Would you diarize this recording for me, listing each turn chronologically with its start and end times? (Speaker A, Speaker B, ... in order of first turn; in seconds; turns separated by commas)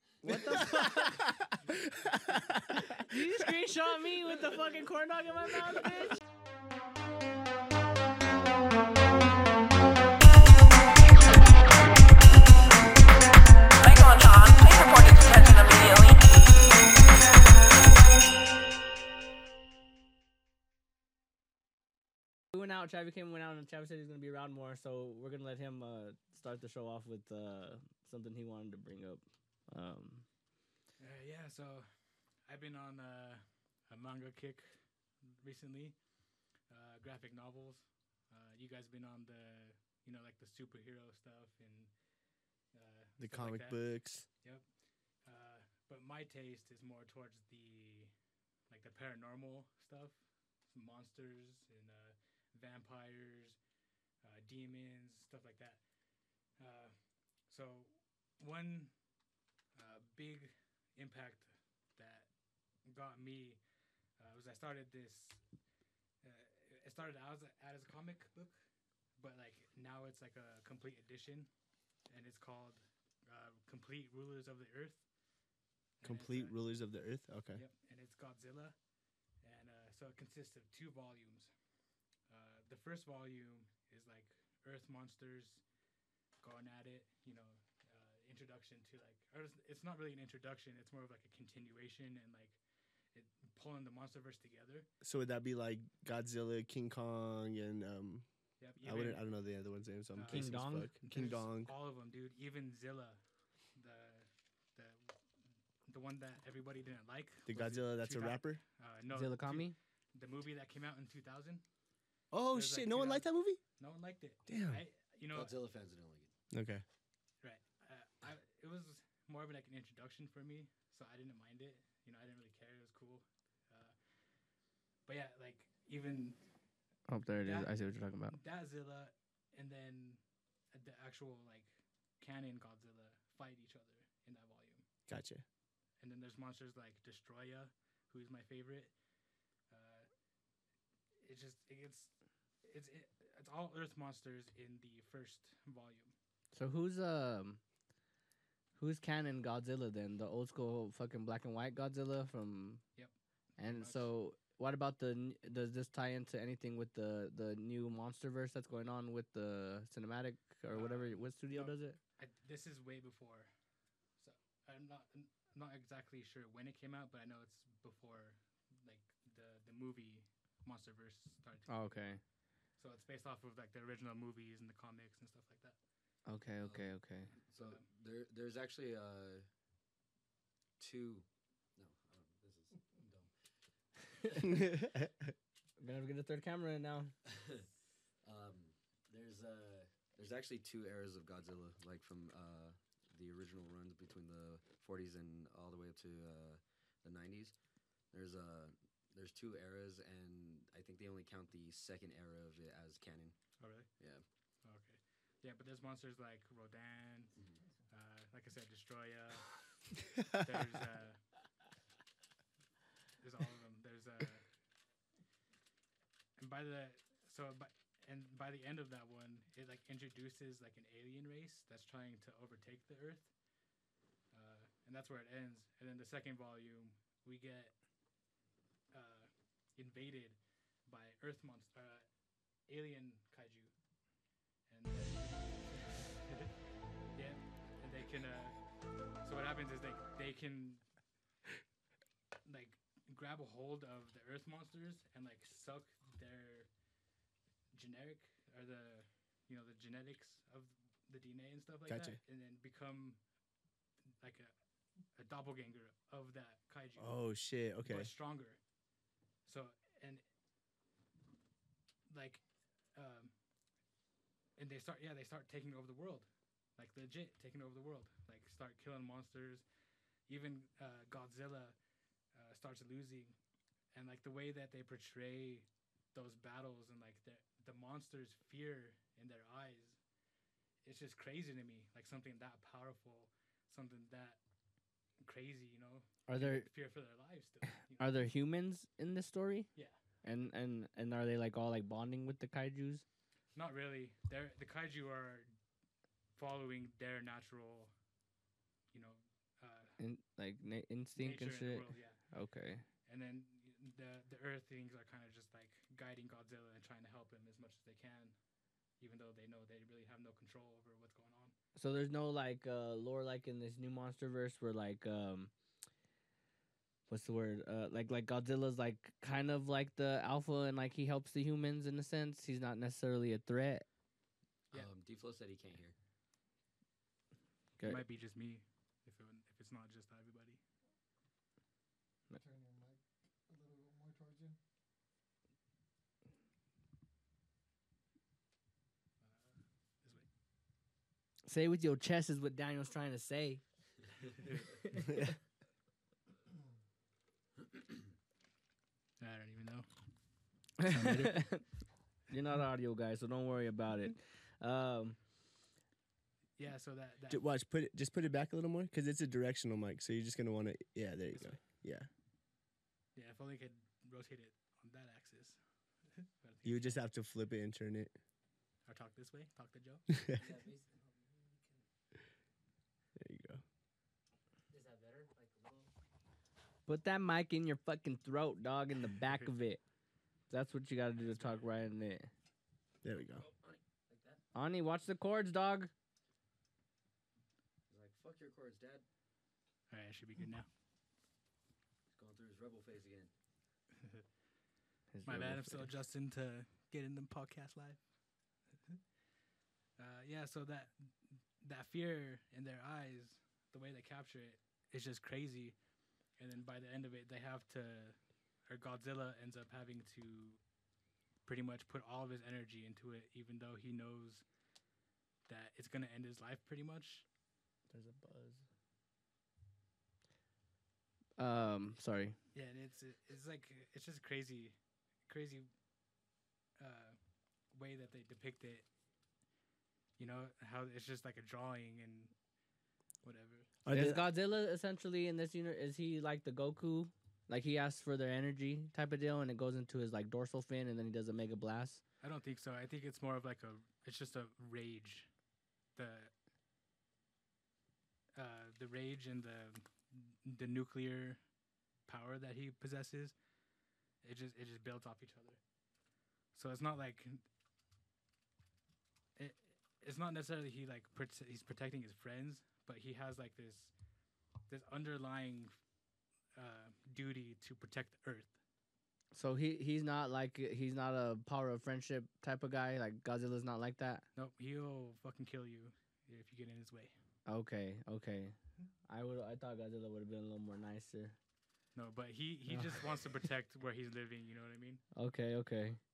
Speaker A: 0.2-3.3, Speaker B: 0.2-1.2, Speaker B: 3.0-6.2, Speaker C: 13.8-16.5, Speaker B: 22.5-30.2, Speaker D: 31.0-31.9, Speaker D: 32.4-36.0, Speaker D: 36.7-41.9, Speaker D: 42.7-43.8, Speaker A: 43.2-44.2, Speaker D: 45.2-48.1, Speaker D: 48.7-53.6, Speaker D: 54.2-55.8, Speaker D: 56.6-58.9, Speaker D: 59.7-62.3, Speaker D: 62.8-63.6, Speaker D: 64.2-65.4, Speaker D: 66.2-68.6, Speaker D: 69.2-71.5, Speaker D: 72.1-75.0, Speaker D: 76.0-76.5, Speaker A: 76.0-77.6, Speaker D: 77.5-78.8, Speaker D: 79.4-81.5, Speaker D: 82.3-85.6, Speaker D: 86.4-92.6, Speaker D: 93.1-94.9, Speaker A: 95.0-98.3, Speaker D: 98.6-99.2, Speaker A: 98.8-101.7, Speaker D: 100.1-103.2, Speaker B: 100.3-100.9, Speaker D: 103.7-105.2, Speaker D: 105.8-111.6, Speaker A: 107.5-108.6, Speaker B: 109.1-109.7, Speaker A: 112.3-113.6, Speaker D: 112.5-113.3, Speaker D: 113.8-115.5, Speaker A: 114.5-114.8, Speaker E: 115.3-116.3, Speaker A: 116.5-116.8, Speaker D: 117.4-123.9, Speaker D: 125.0-126.4, Speaker B: 127.1-128.4, Speaker D: 127.4-127.7, Speaker D: 128.3-130.2, Speaker D: 130.7-134.8, Speaker A: 135.1-135.4, Speaker D: 136.0-138.9, Speaker D: 139.7-140.1, Speaker D: 141.2-142.1, Speaker D: 142.6-146.1, Speaker B: 146.5-147.6, Speaker B: 148.8-152.8, Speaker D: 152.9-154.1, Speaker B: 153.6-162.0, Speaker D: 160.7-163.5, Speaker D: 164.2-171.8, Speaker B: 171.7-172.2, Speaker D: 172.8-175.8, Speaker B: 176.2-177.3, Speaker E: 176.6-179.4, Speaker E: 180.8-183.3, Speaker A: 184.4-185.3, Speaker B: 185.8-187.1, Speaker E: 187.2-187.7, Speaker E: 188.2-197.5, Speaker E: 198.1-203.3, Speaker D: 203.6-203.9, Speaker D: 204.6-207.3, Speaker E: 207.3-207.6, Speaker D: 207.9-209.6, Speaker D: 210.3-211.2, Speaker D: 213.2-214.4, Speaker D: 216.4-223.3, Speaker D: 224.3-227.8, Speaker D: 228.9-232.1, Speaker D: 232.7-233.7, Speaker D: 234.7-236.6, Speaker D: 237.1-238.6, Speaker D: 239.2-240.8, Speaker D: 242.4-246.7, Speaker D: 247.7-253.2, Speaker A: 251.9-252.2, Speaker D: 254.2-254.5, Speaker D: 255.1-257.1, Speaker A: 257.0-258.1, Speaker D: 257.8-258.6, Speaker D: 259.4-260.2, Speaker D: 262.1-262.4, Speaker D: 262.9-263.3, Speaker D: 264.6-269.6, Speaker D: 270.3-271.8, Speaker D: 272.3-273.4, Speaker D: 273.9-280.0, Speaker D: 280.8-284.4, Speaker D: 285.2-288.1, Speaker B: 286.3-286.7, Speaker B: 288.0-289.7, Speaker B: 290.2-293.0, Speaker D: 293.5-295.5, Speaker D: 296.4-297.9, Speaker D: 298.9-300.0, Speaker B: 300.0-302.8, Speaker D: 301.2-302.2, Speaker D: 303.1-308.3, Speaker D: 309.0-311.5, Speaker B: 311.8-315.5, Speaker B: 317.1-323.8, Speaker E: 324.7-325.9, Speaker B: 327.8-328.0, Speaker D: 327.8-330.6, Speaker F: 332.4-334.6, Speaker D: 339.2-340.2, Speaker B: 341.5-343.6, Speaker B: 344.9-345.3, Speaker D: 349.2-349.9, Speaker B: 350.8-351.6, Speaker A: 350.9-351.2, Speaker D: 351.1-351.4, Speaker B: 352.3-355.2, Speaker D: 356.6-357.4, Speaker A: 357.3-362.1, Speaker D: 363.1-365.6, Speaker D: 366.1-367.0, Speaker A: 366.6-368.1, Speaker D: 368.9-370.0, Speaker A: 370.2-370.4, Speaker G: 370.3-371.8, Speaker A: 373.2-373.6, Speaker G: 374.7-375.9, Speaker B: 376.9-379.8, Speaker B: 380.5-382.3, Speaker D: 381.1-381.7, Speaker A: 383.0-383.4, Speaker E: 383.1-383.8, Speaker G: 384.1-384.4, Speaker B: 384.5-385.9, Speaker E: 387.9-389.0, Speaker D: 389.9-390.7, Speaker E: 392.1-393.3, Speaker B: 395.1-395.9, Speaker D: 395.2-398.0, Speaker D: 400.0-401.1, Speaker D: 401.6-405.8, Speaker D: 406.4-408.2, Speaker D: 408.7-410.6, Speaker D: 411.4-414.4, Speaker D: 415.5-417.2, Speaker B: 417.9-418.6, Speaker B: 421.4-422.4, Speaker D: 422.5-424.8, Speaker D: 425.3-425.7, Speaker D: 426.8-427.2, Speaker D: 427.7-428.8, Speaker D: 430.2-432.3, Speaker D: 433.2-433.7, Speaker A: 433.8-434.3, Speaker B: 433.9-442.0, Speaker D: 442.2-445.3, Speaker D: 445.9-446.3, Speaker D: 448.4-451.4, Speaker D: 452.1-453.3, Speaker D: 454.2-455.6, Speaker D: 456.5-457.4, Speaker D: 459.4-463.9, Speaker D: 464.7-465.8, Speaker D: 466.5-468.5, Speaker B: 469.3-474.2, Speaker D: 474.4-477.1, Speaker B: 477.4-481.4, Speaker D: 481.9-485.0, Speaker B: 485.1-486.0